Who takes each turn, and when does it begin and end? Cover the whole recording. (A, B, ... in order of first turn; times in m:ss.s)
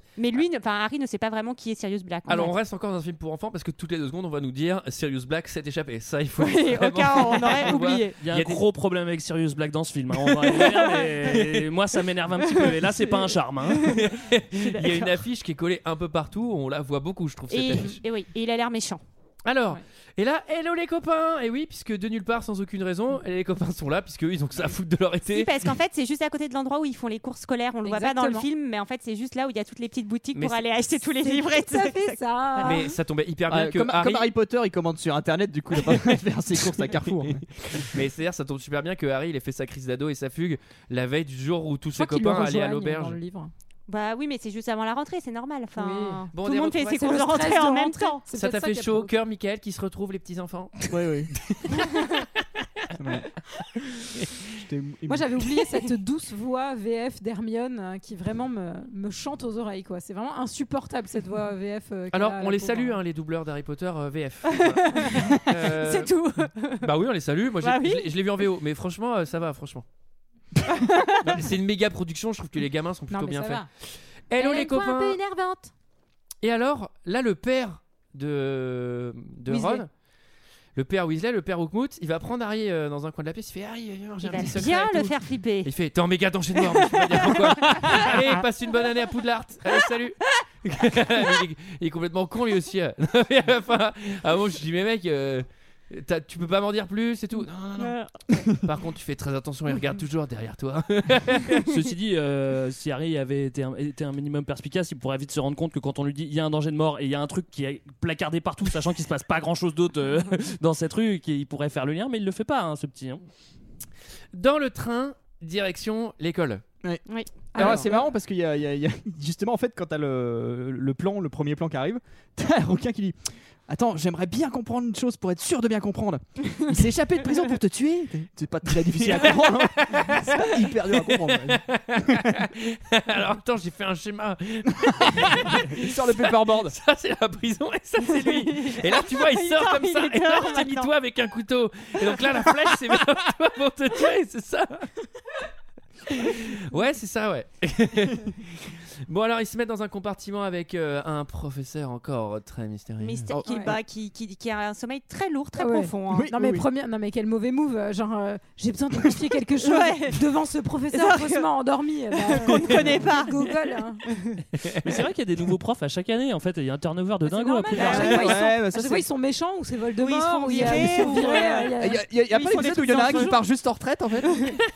0:00.2-0:02.5 A
0:02.3-0:08.6 B
0:06.4-0:08.2 A
0:08.2-0:13.9 C
0:10.3-0:10.6 B
0:10.6-0:11.1 A
0:13.8-0:18.0 B
0:14.6-0:15.1 A
0:17.5-0:19.0 A
0:19.4-0:25.5 B
0:25.3-0:32.8 A
0:27.8-0:28.5 D
0:30.3-0:30.6 B
0:31.2-0:32.9 D
0:32.6-0:34.3 B
0:33.5-0:38.0 E
0:37.8-0:43.2 B
0:42.0-0:43.5 D
0:43.9-0:48.2 A
0:45.8-0:46.3 D
0:46.3-0:47.2 B
0:46.9-0:49.1 D
0:48.3-0:50.9 B
0:50.9-0:51.3 E
0:51.5-0:52.0 B
0:53.0-0:53.3 E
0:54.2-0:54.4 B
0:54.6-0:55.4 E
0:55.1-1:03.0 D
1:02.1-1:06.1 B
1:04.5-1:06.9 A
1:06.8-1:09.8 B
1:07.6-1:08.1 A
1:10.8-1:11.3 A
1:11.2-1:13.6 B
1:13.1-1:13.7 D
1:14.3-1:15.2 B
1:14.4-1:15.7 D
1:16.4-1:19.9 B
1:19.5-1:19.8 D
1:20.8-1:38.0 B
1:24.2-1:25.7 A
1:26.6-1:28.9 A
1:37.8-1:38.2 A
1:38.6-1:41.7 B
1:41.7-1:53.2 C
1:54.3-1:56.6 B
1:57.1-1:57.8 A
1:57.6-1:57.9 D
1:57.6-2:12.4 E
1:57.6-1:57.9 B
2:08.9-2:24.9 B
2:14.8-2:16.8 E
2:18.2-2:20.9 A
2:26.1-2:33.3 B
2:33.0-2:36.3 A
2:33.5-2:33.8 D
2:35.6-2:44.0 D
2:36.1-2:36.6 E
2:39.6-2:40.3 A
2:40.9-2:41.4 A
2:42.2-2:43.5 A
2:44.8-2:48.2 C
2:47.2-2:52.1 D
2:47.8-2:48.4 A
2:47.8-2:49.1 E
2:50.0-2:53.4 A
2:51.8-2:54.5 E
2:52.7-2:53.2 D
2:54.3-2:54.6 A